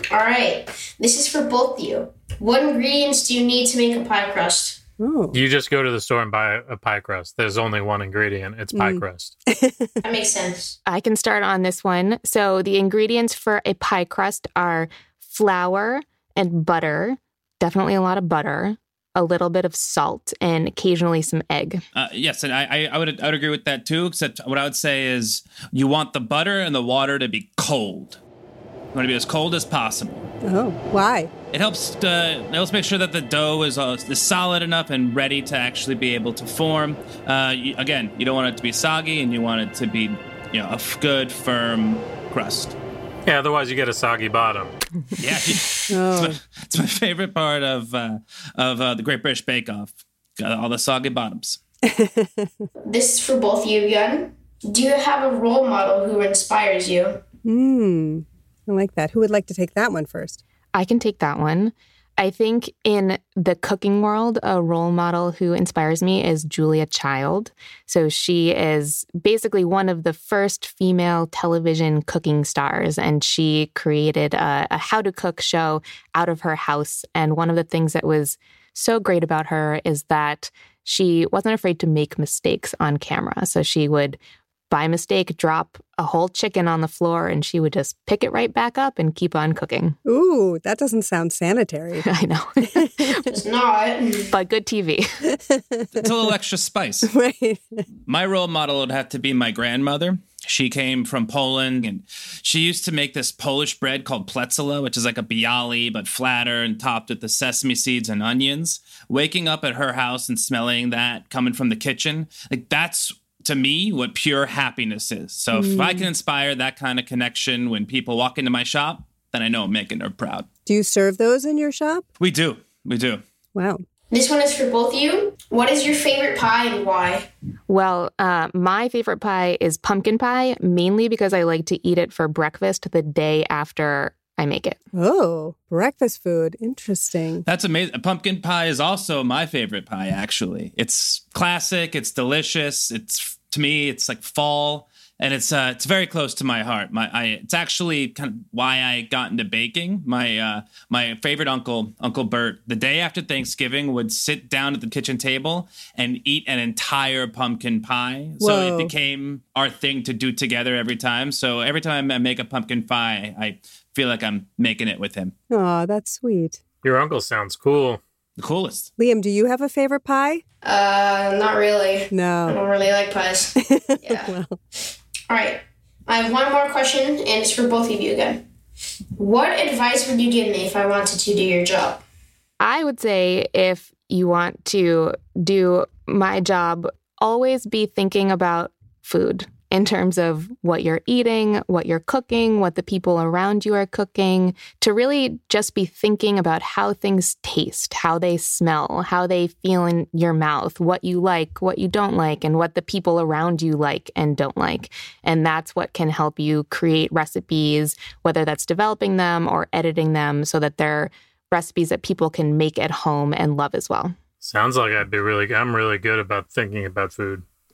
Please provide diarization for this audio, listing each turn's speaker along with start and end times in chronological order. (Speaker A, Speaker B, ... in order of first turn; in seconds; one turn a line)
Speaker A: 0.1-4.8
Speaker B: 5.0-5.4
Speaker C: 5.3-9.3
Speaker B: 8.7-10.0
Speaker A: 10.0-10.8
Speaker D: 10.9-21.8
Speaker E: 21.9-28.2
Speaker E: 28.9-30.3
Speaker B: 30.4-31.3
Speaker E: 31.5-42.8
Speaker C: 43.3-44.7
Speaker E: 45.2-51.6
Speaker B: 45.9-46.4
Speaker B: 51.9-52.7
Speaker A: 52.8-57.2
Speaker B: 57.5-60.4
Speaker D: 60.7-84.2
Speaker D: 84.7-90.0
Speaker B: 90.0-92.1
Speaker D: 92.0-93.2
Speaker B: 92.7-93.2
Speaker A: 93.3-94.3
Speaker D: 94.3-95.0
Speaker B: 95.3-96.1
Speaker E: 96.0-97.1
Speaker B: 97.0-97.8
Speaker E: 98.1-120.5
Speaker B: 115.5-116.1
Speaker B: 120.7-122.0
Speaker E: 122.2-123.2
Speaker B: 123.5-123.8
Speaker A: 124.1-127.3
Speaker D: 127.7-134.8
Speaker B: 134.9-137.4
Speaker E: 137.4-165.3
Speaker B: 158.4-158.9
Speaker B: 165.5-166.6
Speaker C: 166.8-168.0
Speaker E: 168.4-168.9
Speaker B: 169.0-170.4
Speaker A: 170.6-174.3
Speaker B: 172.1-172.6
Speaker B: 173.6-174.6
Speaker A: 175.3-178.4
Speaker A: 179.2-182.0
Speaker D: 182.6-214.1
Speaker C: 214.4-217.4